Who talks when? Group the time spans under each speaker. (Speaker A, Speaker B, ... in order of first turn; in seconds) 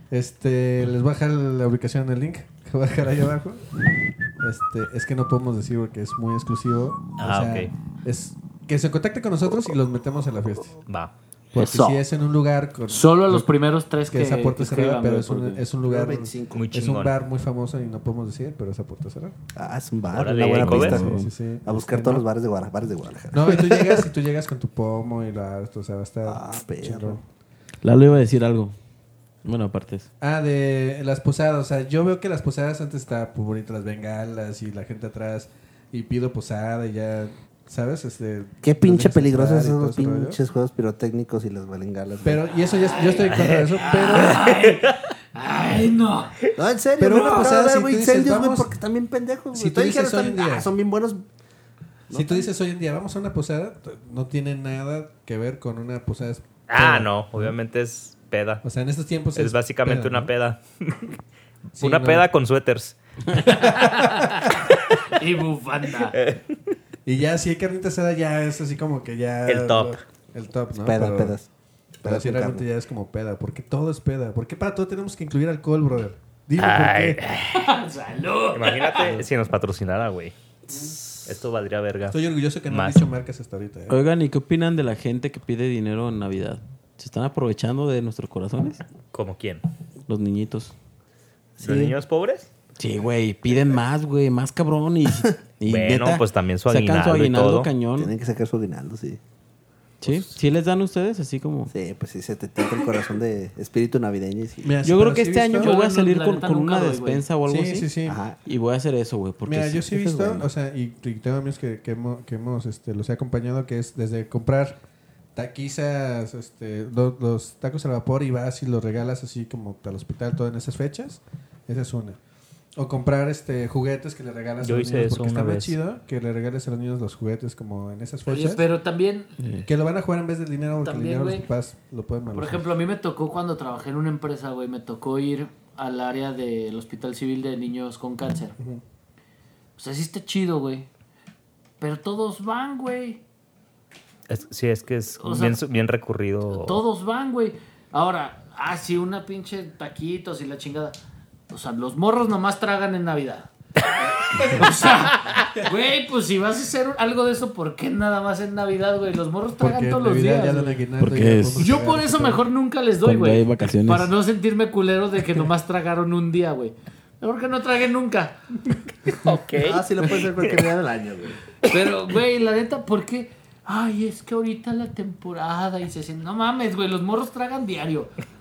Speaker A: 0.1-3.6, 4.4-10.8, 11.5-13.5, 14.1-19.4, 20.7-22.2, 23.3-27.2, 30.2-40.4, 42.2-44.4, 47.0-48.7, 49.5-50.7, 52.1-57.5, 58.6-60.3, 61.8-62.3, 67.0-71.3, 72.0-77.2, 82.1-84.0, 104.6-105.7, 107.5-108.2, 109.4-114.8, 115.3-122.2, 122.8-128.6, 129.7-132.7, 159.6-162.4
Speaker B: 7.2-7.7, 16.5-17.1, 20.1-21.0, 44.6-44.9, 56.7-58.6, 59.3-61.1, 61.8-63.0, 66.1-66.5, 69.5-70.0, 76.6-77.7, 78.5-80.3, 81.2-82.2, 82.7-83.0, 89.1-89.6, 91.6-92.5, 95.7-97.7, 100.0-100.3, 124.6-125.7, 144.3-146.8, 169.2-169.8
Speaker C: 11.6-12.0, 12.9-15.6, 42.8-46.4, 63.4-64.5, 65.1-66.2, 77.5-79.1, 105.6-107.2, 128.3-129.3, 130.8-131.4, 132.3-138.6, 139.8-140.9, 141.8-143.2, 145.2-145.6, 146.5-151.0, 151.5-153.5, 154.3-160.8, 161.6-169.4, 171.7-178.1
Speaker D: 15.8-16.6, 19.5-24.1, 26.2-27.2, 38.6-42.4, 46.5-51.2, 52.1-52.5, 70.8-71.5, 72.0-72.6, 91.6-91.9, 98.0-99.2, 101.7-104.8, 108.0-108.4, 169.5-171.4
Speaker E: 20.6-21.3, 27.8-28.7, 29.4-30.1, 83.9-88.8, 90.1-90.7, 92.8-98.1, 100.0-101.7, 104.8-107.9, 108.4-110.4, 129.4-129.7, 161.0-161.7, 163.0-164.1